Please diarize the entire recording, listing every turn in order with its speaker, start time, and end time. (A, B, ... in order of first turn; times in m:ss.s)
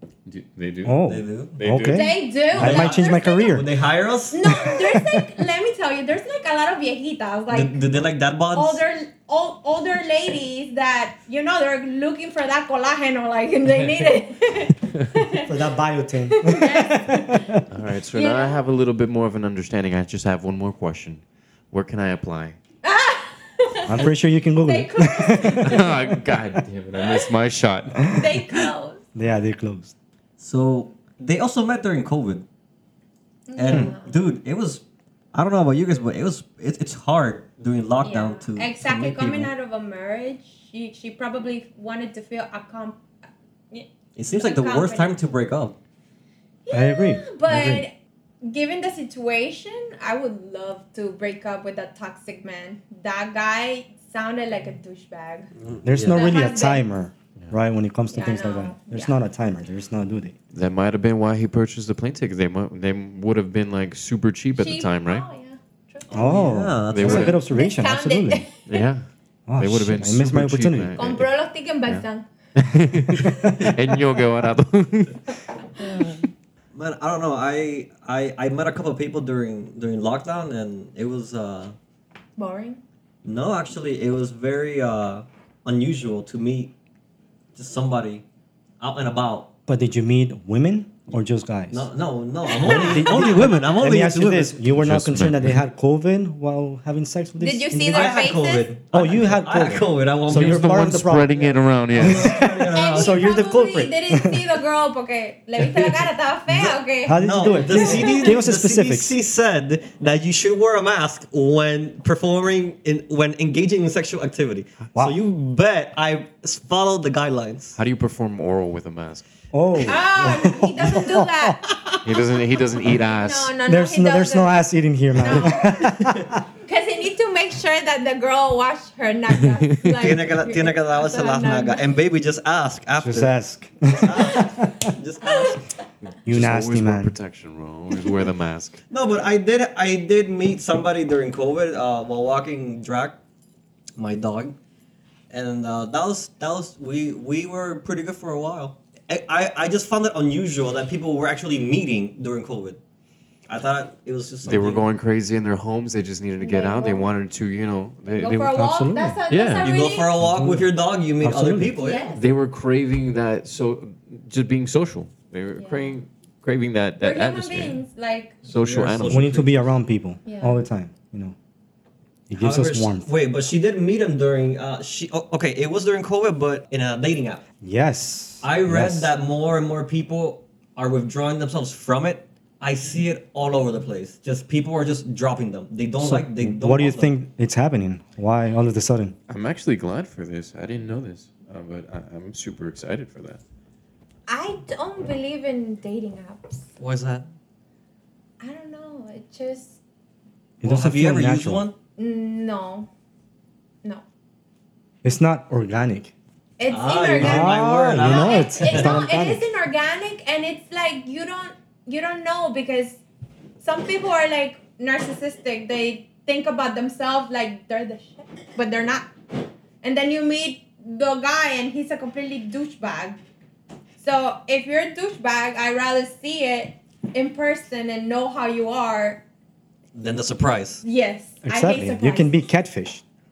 0:00.2-0:01.0 A
0:00.8-0:03.7 B
0:01.0-0:01.6 C
0:01.6-0:02.1 A
0:01.9-0:03.6 D
0:02.5-0:04.5 C
0:04.3-0:07.7 D
0:04.5-0:05.2 B
0:07.5-0:08.8 C
0:08.5-0:15.5 D
0:15.4-0:17.6 B
0:16.3-0:17.6 D
0:17.7-0:22.6 A
0:18.1-0:18.6 D
0:22.8-0:24.1 D
0:23.8-0:26.6 B
0:24.6-0:26.1 D
0:25.6-0:28.2 A
0:28.1-0:29.0 D
0:29.1-0:29.9 B
0:30.4-0:32.4 C
0:33.5-0:34.1 D
0:33.6-0:34.8 C
0:35.3-0:39.5 C
0:38.0-0:43.0 D
0:43.7-0:45.1 D
0:44.2-0:45.8 C
0:46.6-0:55.5 D
0:46.7-0:47.8 B
0:55.6-0:56.2 C
0:55.8-1:00.3 B
0:56.1-0:56.8 D
0:58.1-0:59.2 D
1:00.5-1:05.2 A
1:04.6-1:06.2 D
1:06.1-1:07.4 C
1:06.1-1:08.4 B
1:06.9-1:07.4 A
1:07.5-1:08.8 D
1:08.7-1:09.0 A
1:09.5-1:11.0 B
1:09.6-1:11.3 A
1:11.0-1:12.3 D
1:11.9-1:15.4 A
1:13.1-1:13.7 B
1:16.7-1:21.7 C
1:22.4-1:22.8 D
1:23.2-1:26.7 C
1:27.5-1:28.2 C
1:28.8-1:29.5 C
1:29.7-1:31.9 B
1:31.7-1:34.6 C
1:32.5-1:33.5 D
1:32.6-1:38.2 B
1:34.7-1:35.6 A
1:37.4-1:38.7 D
1:37.9-1:40.7 C
1:38.9-1:44.4 B
1:40.3-1:42.3 A
1:41.4-1:43.2 C
1:42.7-1:48.4 D
1:46.6-1:49.2 B
1:47.2-1:57.8 C
1:57.8-1:59.2 A
1:59.5-2:01.6 B
1:59.8-2:04.6 D
2:02.0-2:03.5 A
2:03.6-2:06.4 B
2:05.2-2:06.0 D
2:06.6-2:11.8 D
2:09.5-2:10.2 A
2:10.0-2:13.3 C
2:13.0-2:14.9 B
2:13.9-2:15.6 C
2:15.2-2:15.5 D
2:16.1-2:18.8 A
2:16.2-2:17.1 B
2:18.9-2:23.2 C
2:24.0-2:24.5 C
2:25.3-2:32.8 C
2:33.5-2:34.8 C
2:34.4-2:38.6 A
2:36.4-2:37.1 D
2:38.1-2:40.1 D
2:38.4-2:39.2 B
2:39.3-2:39.7 A
2:39.6-2:42.1 C
2:40.2-2:40.6 B
2:41.2-2:41.8 B
2:41.8-2:42.2 D
2:42.1-2:47.8 A
2:45.6-2:46.0 D
2:47.0-2:48.3 D
2:48.4-2:49.5 A
2:48.6-2:49.6 C
2:49.0-2:51.3 B
2:50.2-2:50.6 D
2:52.3-2:53.1 B
2:52.4-2:57.4 C
2:57.6-2:59.1 B
2:58.4-3:07.1 C
3:06.0-3:09.1 B
3:09.3-3:13.4 A
3:14.3-3:16.6 D
3:16.8-3:17.2 C
3:18.4-3:19.8 D
3:20.6-3:21.6 B
3:20.6-3:21.7 C
3:22.0-3:22.9 D
3:25.0-3:26.1 B
3:26.6-3:33.0 D
3:26.7-3:29.0 C
3:27.2-3:29.5 B
3:33.6-3:39.1 D
3:39.8-3:43.2 D
3:44.0-3:49.2 D
3:49.9-3:50.8 C
3:50.8-3:52.3 D
3:51.4-3:53.0 B